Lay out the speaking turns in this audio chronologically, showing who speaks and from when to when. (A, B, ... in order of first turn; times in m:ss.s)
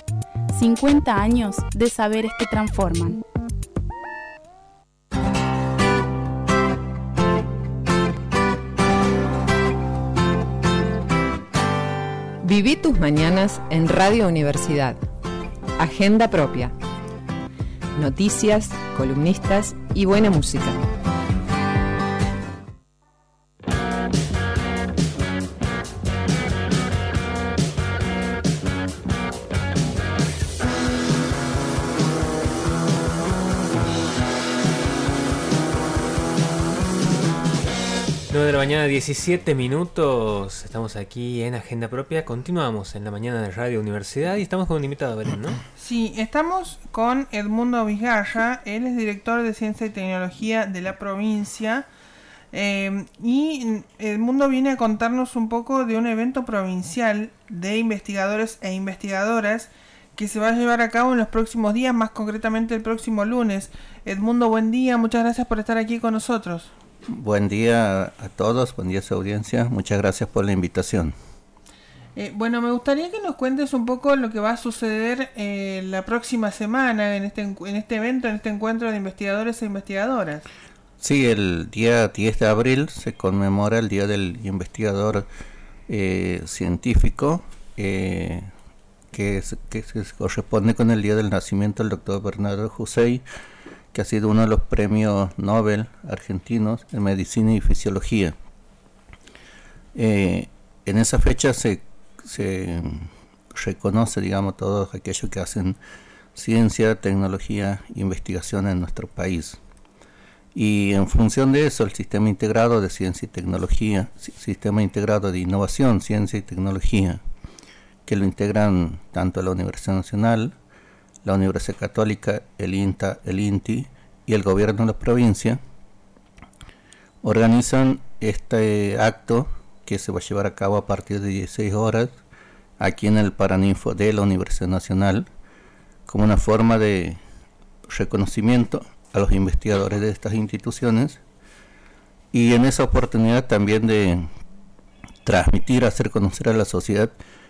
0:00.5-0:03.2 A
0:12.5-0:14.9 B
0:16.0-0:16.7 B
0:18.0-0:20.7 B
0:38.3-0:45.6 C
0:45.8-0:51.9 D
0:52.5-1:06.7 D
1:07.1-1:11.1 E
1:12.2-1:20.4 D
1:21.0-1:25.3 E
1:25.9-1:28.5 E
1:29.1-1:33.2 E
1:33.9-1:38.3 E
1:39.9-1:45.8 E
1:46.3-1:49.6 E
1:50.5-1:57.2 E
1:58.0-2:00.5 E
2:01.2-2:05.6 E
2:07.2-2:12.2 E
2:12.8-2:15.3 E
2:16.1-2:17.2 E
2:17.9-2:21.2 E
2:22.3-2:24.3 E
2:25.2-2:27.1 E